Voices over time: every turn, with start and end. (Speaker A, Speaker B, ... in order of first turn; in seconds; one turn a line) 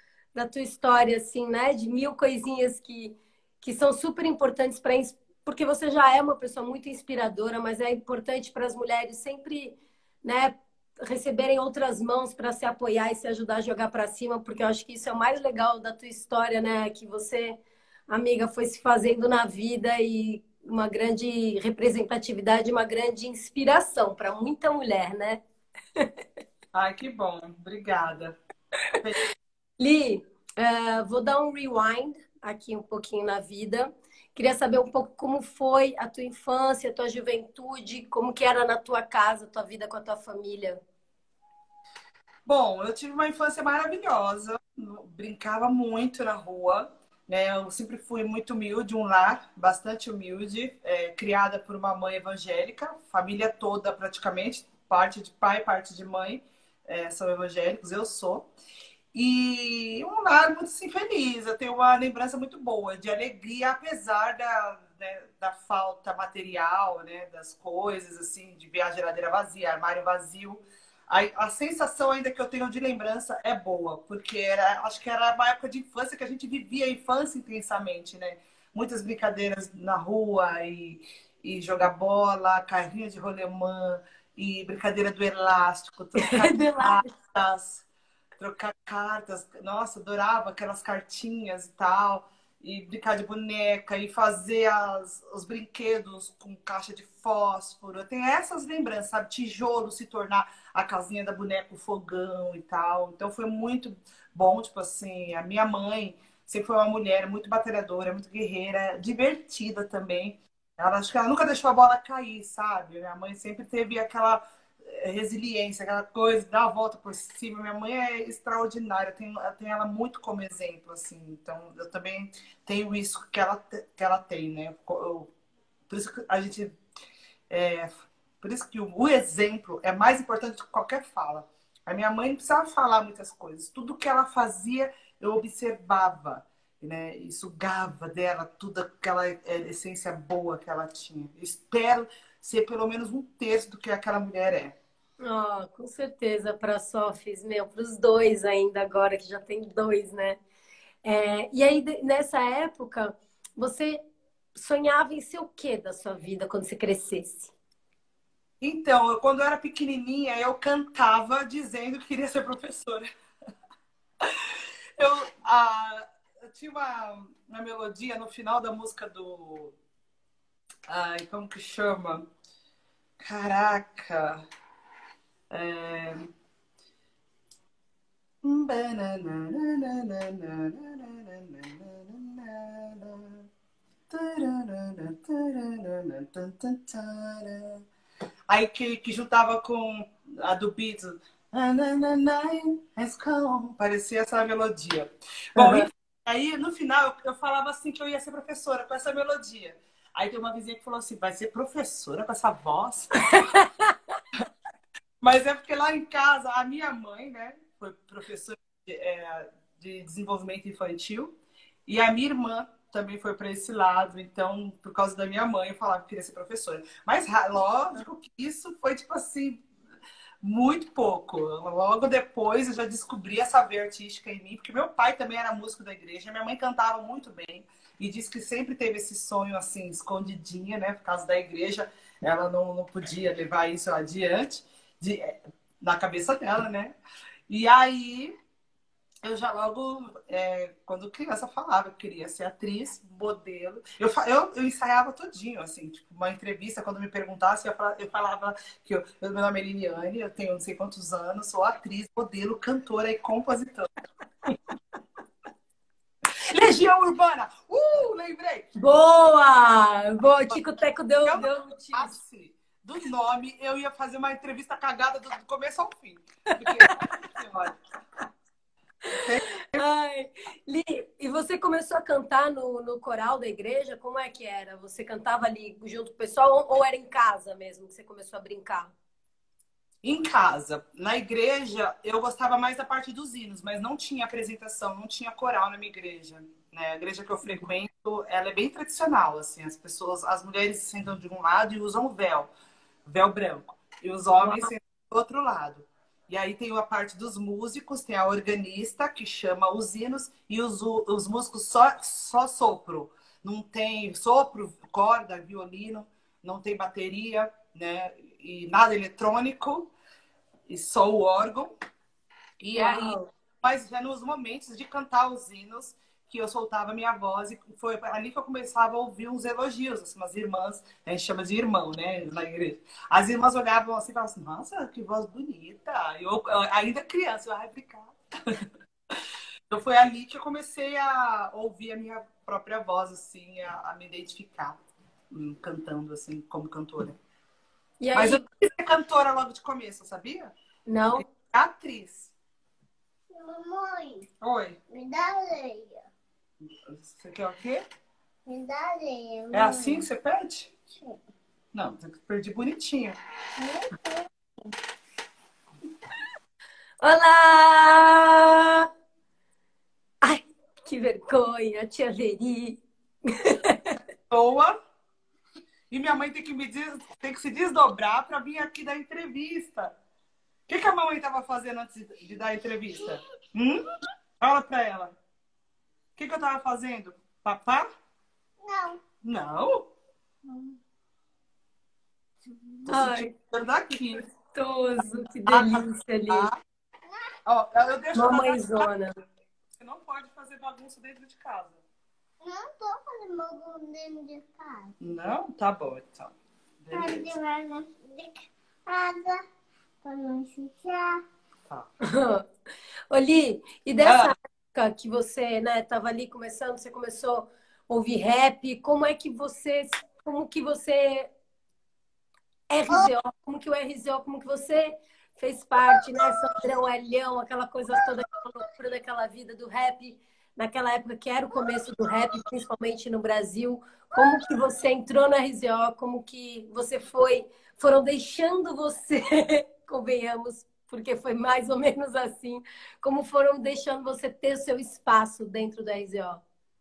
Speaker A: 0.3-25.4
Speaker B: 26.7-28.4
Speaker B: 28.9-29.2
Speaker A: 29.8-40.8
Speaker B: 42.5-58.5
Speaker B: 59.1-87.9
Speaker A: 86.2-87.1
Speaker B: 88.4-125.3
Speaker B: 125.9-126.8
Speaker B: 127.5-144.8
Speaker A: 145.2-150.4
Speaker A: 151.0-154.0
Speaker A: 154.6-157.5
Speaker B: 158.6-163.1
Speaker B: 164.2-169.8
Speaker B: 170.9-172.3
Speaker B: 173.2-174.4
Speaker B: 175.5-176.3
Speaker B: 178.4-183.5
Speaker B: 184.1-187.8
Speaker B: 188.5-203.5
Speaker A: 195.6-195.9
Speaker A: 203.2-204.2
Speaker B: 205.2-211.3
Speaker B: 211.9-219.6
Speaker B: 220.4-237.0
Speaker B: 237.5-238.3
Speaker B: 239.2-253.9
Speaker B: 256.4-258.7
Speaker A: 258.8-262.2
Speaker B: 261.2-267.8
Speaker A: 266.5-267.1
Speaker B: 269.1-269.8
Speaker A: 269.1-278.9
Speaker B: 280.0-292.5
Speaker B: 293.1-309.9
Speaker A: 294.4-294.7
Speaker B: 310.7-311.7
Speaker B: 312.6-329.2
Speaker A: 312.8-313.3
Speaker B: 329.7-334.8
Speaker B: 335.3-337.2
Speaker A: 338.0-338.4
Speaker B: 338.1-340.5
Speaker A: 340.9-341.2
Speaker B: 341.2-342.3
Speaker C: 343.3-344.3
Speaker B: 344.4-344.8
Speaker C: 344.9-346.0
Speaker B: 346.9-347.8
Speaker C: 348.5-350.1
Speaker B: 349.5-350.7
Speaker C: 350.9-351.2
Speaker B: 351.7-353.2
Speaker C: 353.6-354.3
Speaker A: 357.0-358.9
Speaker A: 360.2-364.0
Speaker B: 364.3-364.8
Speaker B: 365.9-369.9
Speaker B: 370.7-373.9
Speaker B: 374.4-375.1
Speaker B: 376.2-377.9
Speaker C: 378.6-379.0
Speaker B: 379.2-379.9
Speaker C: 380.5-380.8
Speaker C: 382.5-382.9
Speaker B: 382.9-384.2
Speaker A: 382.9-383.3
Speaker A: 384.5-386.5
Speaker B: 385.5-386.6
Speaker B: 387.5-388.9
Speaker A: 388.1-389.1
Speaker B: 389.8-391.8
Speaker C: 392.4-394.9
Speaker B: 395.0-397.3
Speaker C: 396.9-399.4
Speaker C: 400.0-401.2
Speaker A: 402.0-402.5
Speaker A: 403.1-411.3
Speaker B: 404.0-404.3
Speaker A: 412.7-436.4
Speaker C: 415.9-416.4
Speaker C: 421.6-422.4